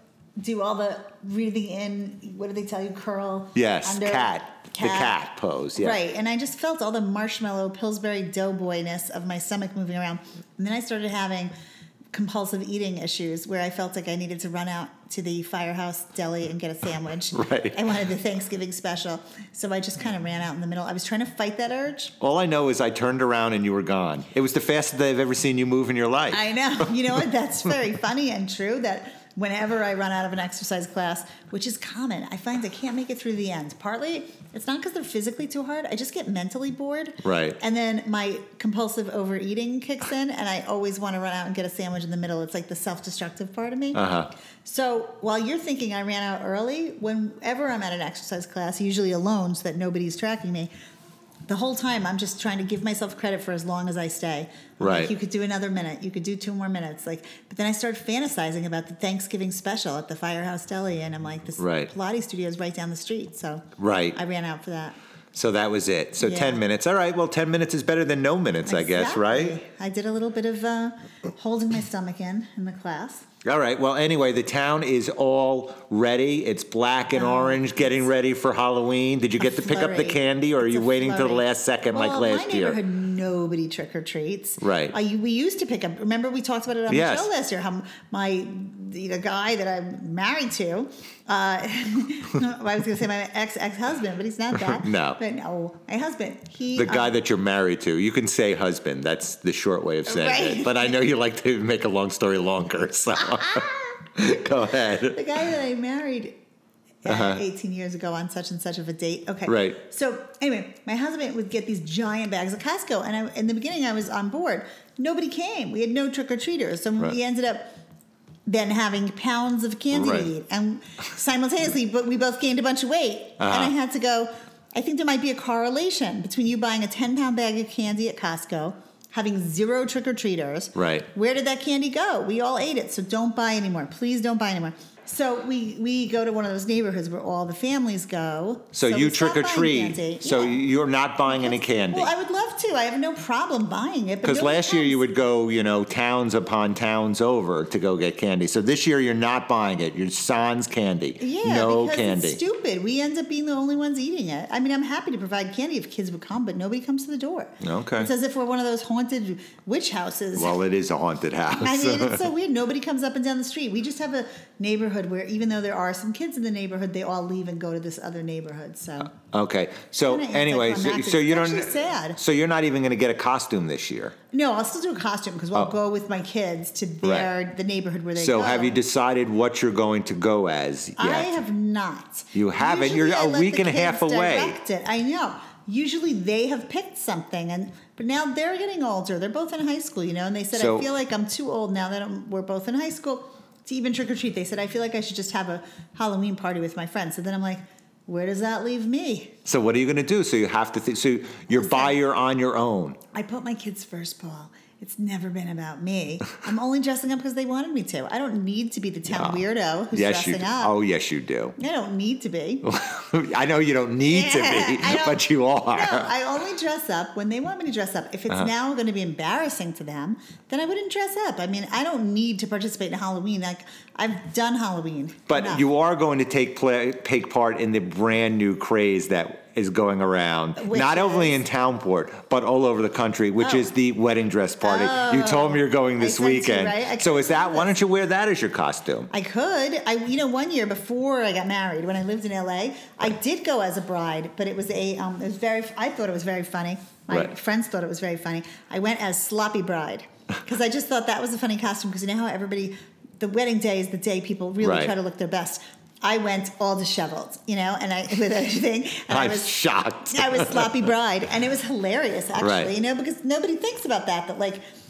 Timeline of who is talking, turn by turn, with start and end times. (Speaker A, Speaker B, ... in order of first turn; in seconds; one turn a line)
Speaker A: 0.4-5.2
Speaker B: 3.5-6.0
Speaker A: 5.8-11.5
Speaker A: 12.1-22.1
Speaker B: 17.3-17.8
Speaker B: 22.2-26.9
Speaker A: 26.3-44.1
Speaker B: 37.2-37.6
Speaker B: 43.9-44.3
Speaker A: 44.6-50.7
Speaker A: 51.5-65.0
Speaker B: 54.8-55.1
Speaker B: 61.6-61.9
Speaker B: 63.8-64.2
Speaker B: 65.3-69.6
Speaker A: 66.2-66.6
Speaker A: 68.7-73.2
Speaker B: 73.4-82.8
Speaker A: 77.1-78.1
Speaker A: 79.4-97.2
Speaker B: 84.6-84.9
Speaker B: 86.9-87.3
Speaker B: 94.5-95.2
Speaker B: 96.7-105.2
Speaker A: 100.1-100.9
Speaker A: 105.1-106.4
Speaker A: 107.0-117.7
Speaker B: 107.1-107.4
Speaker B: 109.5-109.8
Speaker A: 118.5-140.6
Speaker B: 119.9-120.3
Speaker B: 123.4-123.7
Speaker B: 130.8-131.1
Speaker B: 138.7-142.1
Speaker A: 141.2-145.0
Speaker B: 144.2-152.4
Speaker A: 151.2-160.6
Speaker B: 157.6-158.1
Speaker B: 160.3-162.3
Speaker A: 161.6-169.1
Speaker B: 169.2-174.1
Speaker A: 169.9-172.2
Speaker A: 174.3-178.8
Speaker B: 177.0-177.3
Speaker B: 178.2-181.4
Speaker A: 181.0-199.3
Speaker B: 182.3-184.6
Speaker B: 190.5-190.9
Speaker B: 199.4-203.0
Speaker A: 201.5-202.0
Speaker A: 203.1-210.8
Speaker B: 209.1-211.6
Speaker A: 211.6-212.6
Speaker B: 212.6-216.1
Speaker A: 214.0-225.7
Speaker B: 225.3-239.1
Speaker A: 230.6-231.4
Speaker A: 233.4-233.6
Speaker A: 234.6-237.8
Speaker A: 239.1-259.6
Speaker B: 254.6-254.9
Speaker B: 259.1-260.8
Speaker A: 260.1-264.6
Speaker B: 262.4-262.7